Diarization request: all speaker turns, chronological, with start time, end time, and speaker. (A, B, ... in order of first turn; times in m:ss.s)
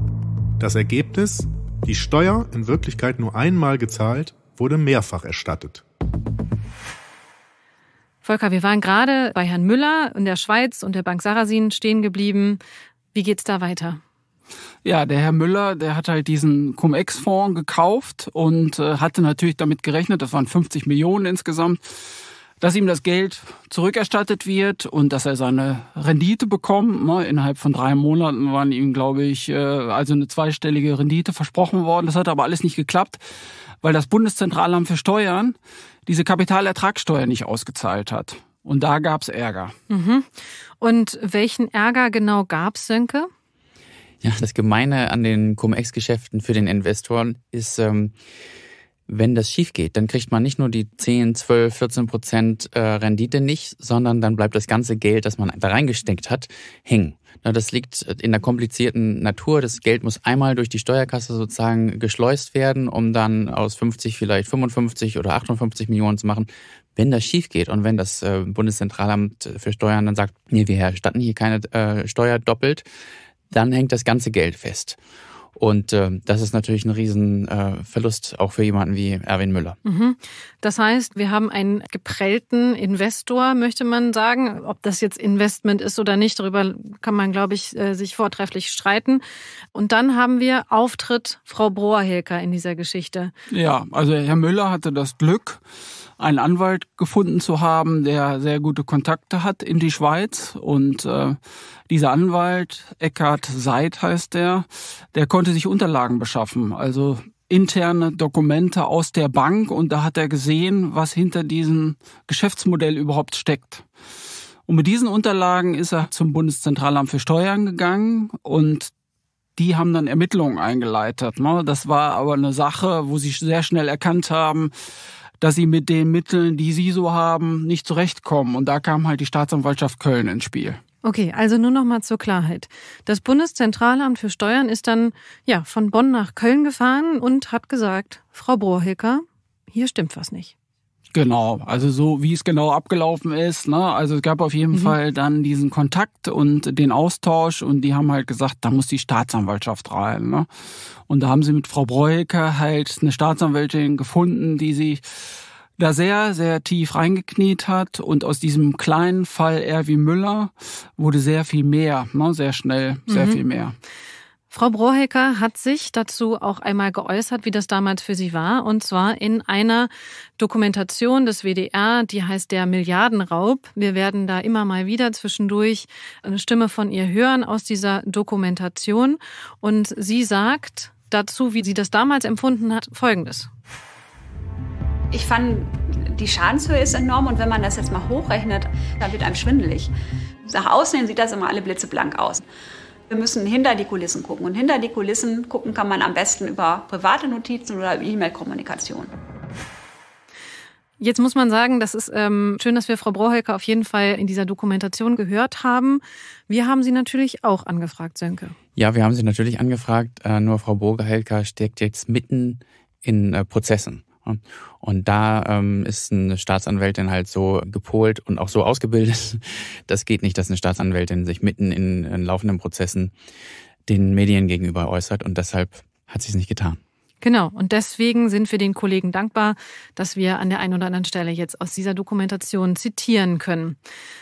0:00.6-0:05.8 A
0:08.2-0:12.6 B
0:13.1-0:14.0 B
0:14.8-0:21.8 C
0:22.6-0:33.2 C
0:33.8-0:35.6 C
0:36.1-0:39.8 C
0:39.9-0:43.3 B
0:44.2-0:48.1 D
0:49.1-1:12.8 D
1:13.5-1:15.0 D
1:15.6-1:19.8 D
1:19.8-1:29.2 B
1:29.7-1:33.3 B
1:33.5-1:35.6 C
1:36.2-1:41.4 C
1:41.9-1:53.8 C
1:54.7-1:58.9 C
1:59.6-2:04.7 C
2:05.4-2:10.8 C
2:11.0-2:20.5 B
2:21.1-2:30.5 C
2:31.1-2:43.8 C
2:43.1-2:43.4 B
2:44.5-3:03.5 B
3:05.1-3:09.9 E
3:10.5-3:12.4 E
3:13.1-3:19.1 E
3:21.0-3:28.6 B
3:28.8-3:43.1 D
3:43.9-3:46.8 D
3:47.2-3:53.8 B